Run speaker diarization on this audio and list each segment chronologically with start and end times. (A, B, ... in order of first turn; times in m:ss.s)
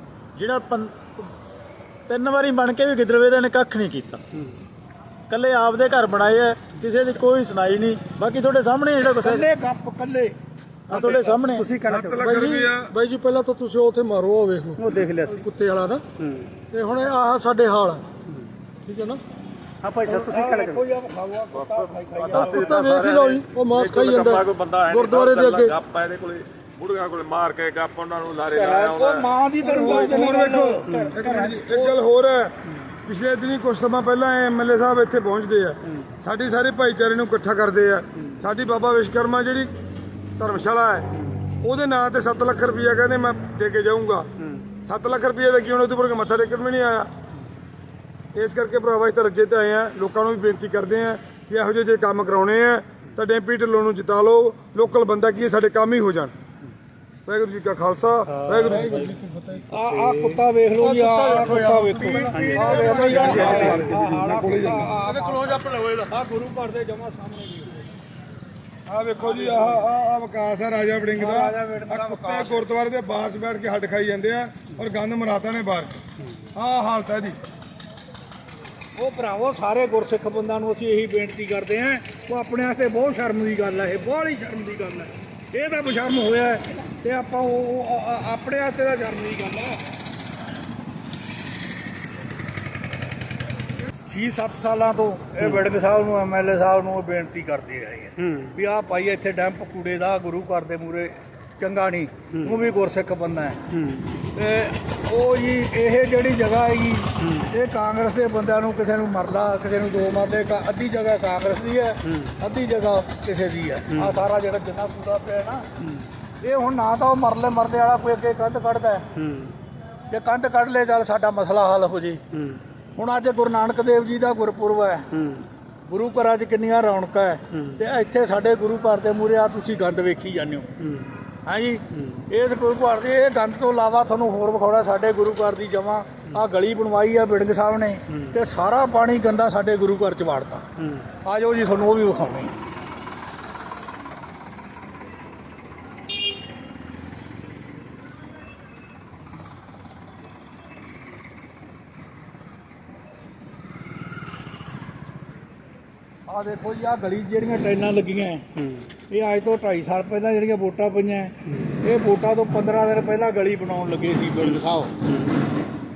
0:00.3-0:01.2 A
0:02.1-0:04.2 A
0:05.3-0:09.4 A
0:09.1-0:10.3 B
0:10.9-0:11.7 A
0:10.9-0:12.3 C
0:11.8-0:12.9 D
0:12.2-0:16.1 E
0:14.8-0:15.4 C
0:16.7-0:18.1 E
0:18.9-0:19.2 E
0:19.8-0:20.8 C
0:20.0-0:22.8 B
0:21.5-0:29.3 F
0:22.6-0:25.7 E
0:28.5-0:31.9 B
0:29.6-0:39.7 D
0:40.4-0:44.3 D
0:44.8-0:47.1 D
0:48.3-0:56.3 D
0:57.2-0:59.0 D
0:58.4-0:59.1 A
0:58.7-0:59.6 E
0:59.6-1:07.9 B
1:00.8-1:03.8 E
1:02.5-1:02.8 A
1:02.7-1:03.8 C
1:03.0-1:04.9 D
1:08.9-1:16.0 D
1:09.2-1:09.7 B
1:11.2-1:12.7 B
1:16.5-1:17.4 D
1:19.0-1:29.8 B
1:34.0-1:43.6 B
1:44.3-1:55.7 B
1:56.4-1:59.2 B
2:00.1-2:02.2 B
2:03.0-2:05.2 B
2:05.8-2:10.8 B
2:11.4-2:20.7 B
2:21.2-2:22.6 B
2:36.3-2:38.4 B
2:39.1-2:44.9 B